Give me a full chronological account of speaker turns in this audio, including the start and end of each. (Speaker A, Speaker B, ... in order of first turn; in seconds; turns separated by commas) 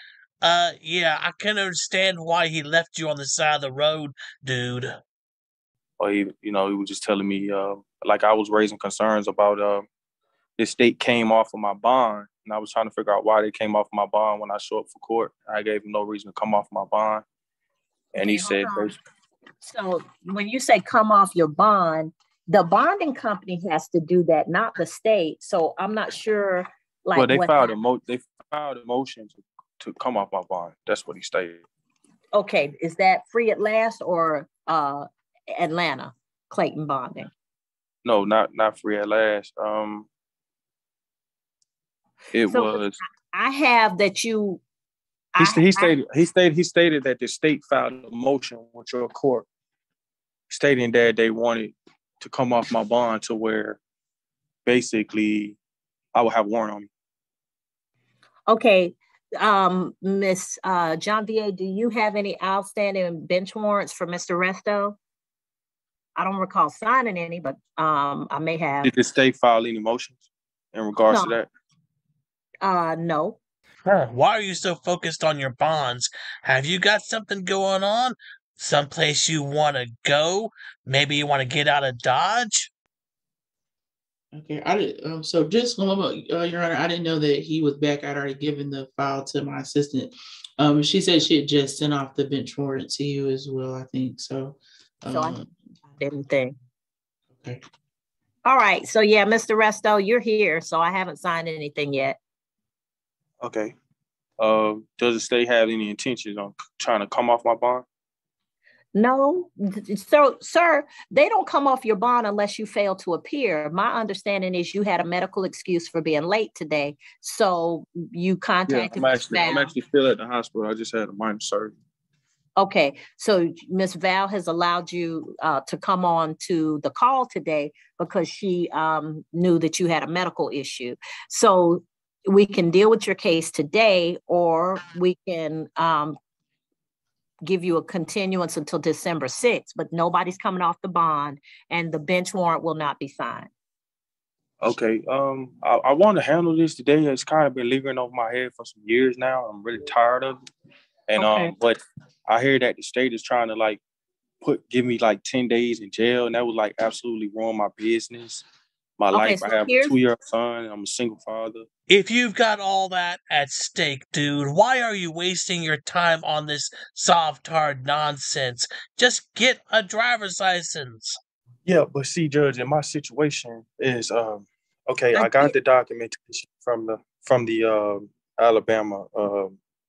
Speaker A: 0.4-5.0, Speaker B: 6.0-9.9, Speaker B: 10.6-17.2, Speaker B: 18.1-19.0, Speaker C: 18.2-18.9, Speaker C: 19.6-27.8, Speaker B: 27.2-31.6, Speaker C: 32.3-37.3, Speaker B: 38.0-40.1, Speaker B: 42.3-43.0, Speaker C: 42.5-42.8, Speaker C: 43.3-44.6, Speaker C: 45.4-46.0, Speaker B: 45.4-49.5, Speaker B: 50.5-53.8, Speaker B: 54.7-55.6, Speaker B: 56.1-56.9, Speaker C: 58.5-65.0, Speaker C: 66.2-68.9, Speaker B: 68.8-70.2, Speaker B: 70.7-71.5, Speaker C: 71.1-71.4, Speaker C: 72.6-73.4, Speaker A: 73.9-82.7, Speaker D: 84.3-95.5, Speaker C: 95.1-96.6, Speaker C: 98.5-102.2, Speaker B: 103.4-103.8, Speaker B: 104.4-107.8, Speaker C: 109.0-119.7, Speaker B: 118.7-121.8, Speaker C: 122.6-136.2, Speaker C: 137.4-143.5, Speaker B: 144.6-150.4, Speaker B: 151.1-153.8, Speaker C: 151.2-151.5, Speaker B: 154.4-158.4, Speaker B: 159.0-161.7, Speaker C: 159.1-159.9, Speaker A: 161.9-171.2, Speaker B: 171.7-179.6, Speaker C: 175.2-175.5